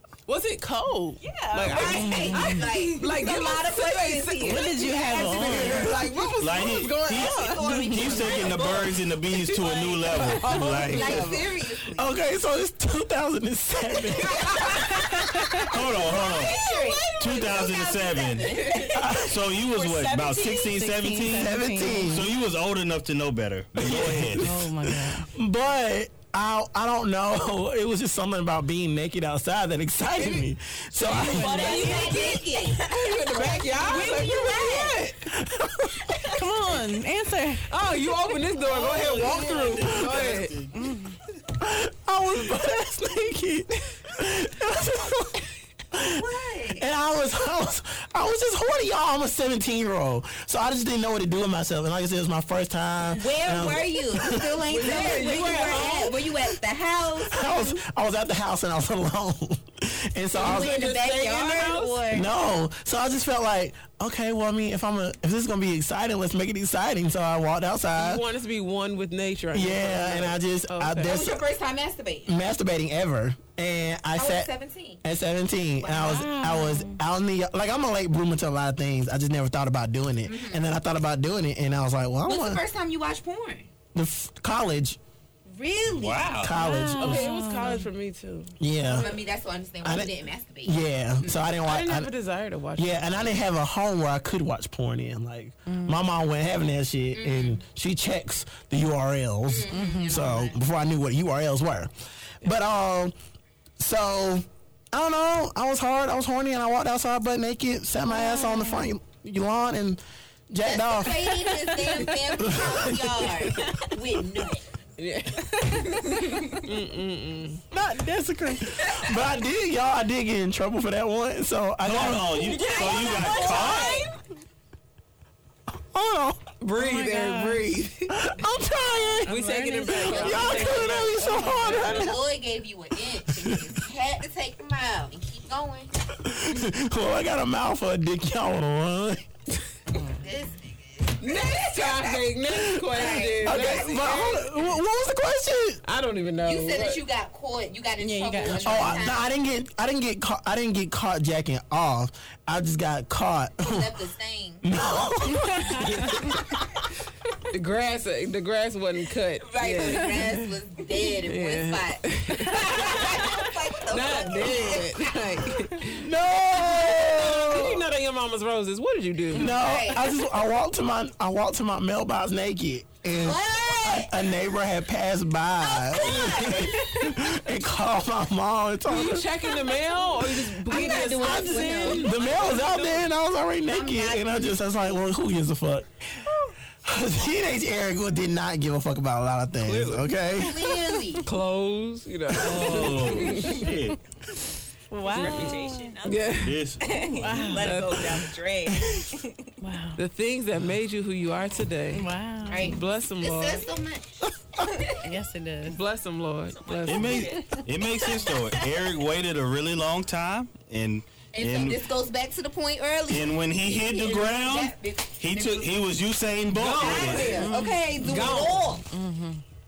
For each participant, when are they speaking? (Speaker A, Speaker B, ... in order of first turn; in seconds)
Speaker A: 0.3-8.6, 9.3-11.5, 14.1-14.8, 16.4-17.7, 18.6-18.9, 32.8-35.3, 37.7-40.5, 54.6-56.3, 60.3-62.0, 68.0-71.2, 87.0-88.5, 91.7-93.3, 115.0-117.6, 123.2-123.8, 126.6-128.2, 129.2-132.1, 141.2-144.4, 145.8-147.0, 157.5-160.5, 161.2-166.0, 166.6-169.5, 178.9-183.0, 189.6-190.1, 191.2-193.6, 195.2-196.6, 197.5-198.3, 200.0-202.1, 202.6-203.6, 205.7-207.5, 216.5-218.7
Speaker B: 1.2-2.4, 8.2-8.9, 18.9-21.2, 31.1-32.6, 122.3-124.2, 195.0-199.5, 206.6-207.6
Speaker C: 1.7-6.2, 7.0-8.9, 10.8-12.2, 14.3-14.9, 15.9-19.0, 31.5-35.0, 38.5-40.7, 46.0-46.8, 53.1-57.8, 60.3-62.3, 71.0-72.4, 74.2-75.0, 80.2-80.6, 82.2-83.7, 85.5-86.4, 88.8-91.4, 97.1-97.6, 99.5-100.5, 110.6-114.7, 116.2-116.6, 123.0-124.0, 129.9-135.9, 139.9-144.4, 146.4-149.3, 153.6-154.7, 159.4-165.5, 169.3-170.1, 173.1-174.2, 175.7-177.3, 179.9-182.1, 183.7-184.9, 190.4-191.3, 202.4-205.1, 211.3-215.7, 216.7-218.8
Speaker D: 1.9-2.6, 4.4-6.0, 21.1-22.2, 24.4-25.3, 31.0-32.3, 36.2-37.7, 40.8-41.1, 75.8-77.0, 86.5-87.9, 95.7-96.0, 99.7-100.2, 108.1-108.9, 111.6-112.1, 126.7-127.8, 128.8-131.9, 148.0-149.0, 192.5-193.7, 194.9-196.0, 197.2-197.9, 199.6-200.0, 201.9-202.8, 205.0-205.8, 217.4-219.4
Speaker E: 5.7-6.2, 11.9-15.2, 18.9-19.4, 21.3-22.3, 23.8-31.6, 35.2-36.1, 41.6-54.6, 57.2-60.9, 62.1-68.2, 69.5-71.4, 72.2-74.5, 75.0-82.6, 83.9-85.0, 86.4-87.3, 88.6-89.1, 89.8-90.1, 90.6-92.1, 92.8-103.1, 103.8-111.5, 112.4-113.2, 117.7-122.5, 125.9-126.4, 128.1-129.3, 130.1-132.2, 133.3-133.7, 136.1-139.2, 143.4-145.8, 148.6-153.9, 154.6-156.4, 165.8-167.9, 169.3-179.3, 180.8-185.9, 186.8-190.8
Speaker F: 6.4-11.3, 15.7-16.6, 17.2-24.5, 85.9-86.5, 121.8-124.0, 192.4-194.0, 196.3-197.2, 206.8-211.8, 213.1-217.5